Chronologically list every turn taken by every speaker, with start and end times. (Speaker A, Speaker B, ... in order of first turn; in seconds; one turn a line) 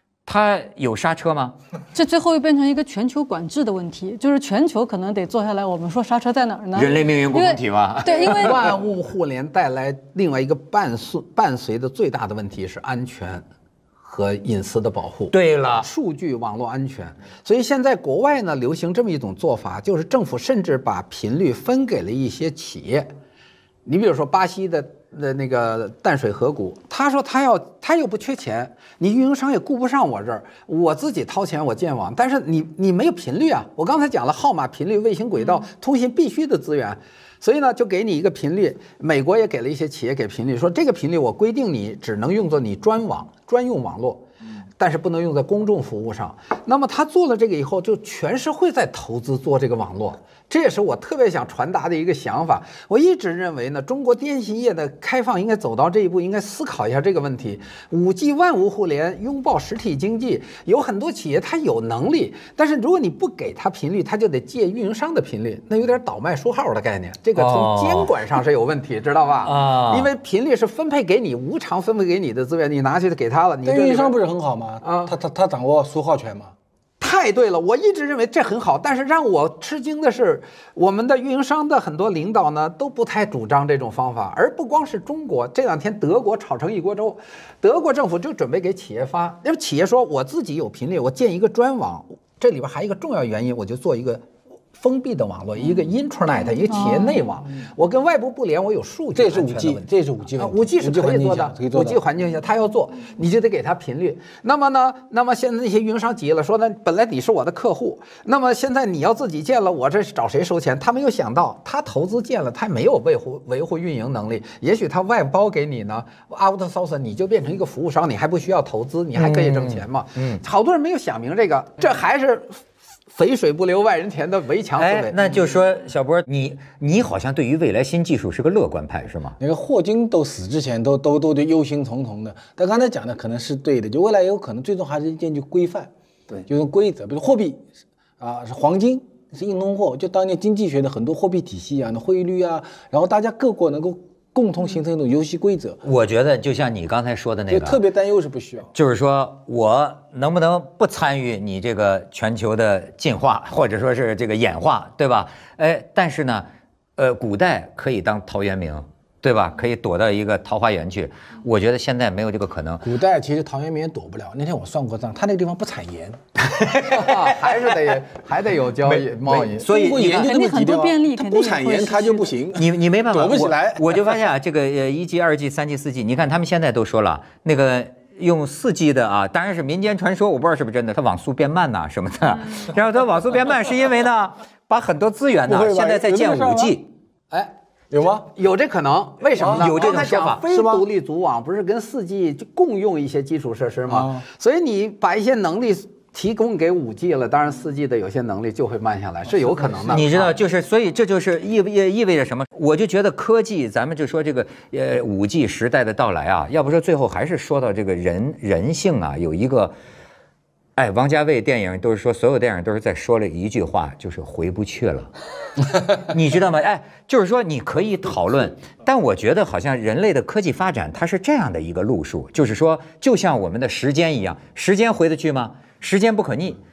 Speaker A: 0.3-1.6
Speaker B: 1.9-8.7
Speaker A: 6.7-8.6
Speaker C: 8.2-13.4
Speaker C: 14.0-23.1
Speaker A: 15.3-15.9
Speaker C: 23.9-44.3
Speaker C: 44.8-74.2
Speaker A: 67.4-68.1
Speaker A: 69.4-70.1
Speaker D: 73.7-76.5
Speaker C: 74.8-75.1
Speaker C: 77.0-122.6
Speaker B: 96.7-97.2
Speaker D: 99.1-102.0
Speaker A: 119.2-120.4
Speaker C: 123.1-125.2
Speaker A: 124.8-129.4
Speaker D: 129.4-137.7
Speaker D: 138.2-145.8
Speaker A: 145.8-147.8
Speaker D: 147.5-148.7
Speaker A: 148.7-162.9
Speaker D: 162.8-166.2
Speaker C: 166.6-169.6
Speaker A: 166.8-167.3
Speaker D: 168.8-174.2
Speaker A: 169.6-170.3
Speaker B: 169.9-172.3
Speaker A: 172.5-186.9
Speaker D: 185.5-186.8
Speaker D: 187.9-188.3
Speaker C: 188.3-200.3
Speaker D: 189.4-190.9
Speaker A: 189.4-190.4
Speaker D: 193.9-194.2
Speaker D: 199.6-200.0
Speaker A: 199.9-209.8
Speaker A: 210.8-215.1
Speaker A: 215.8-226.6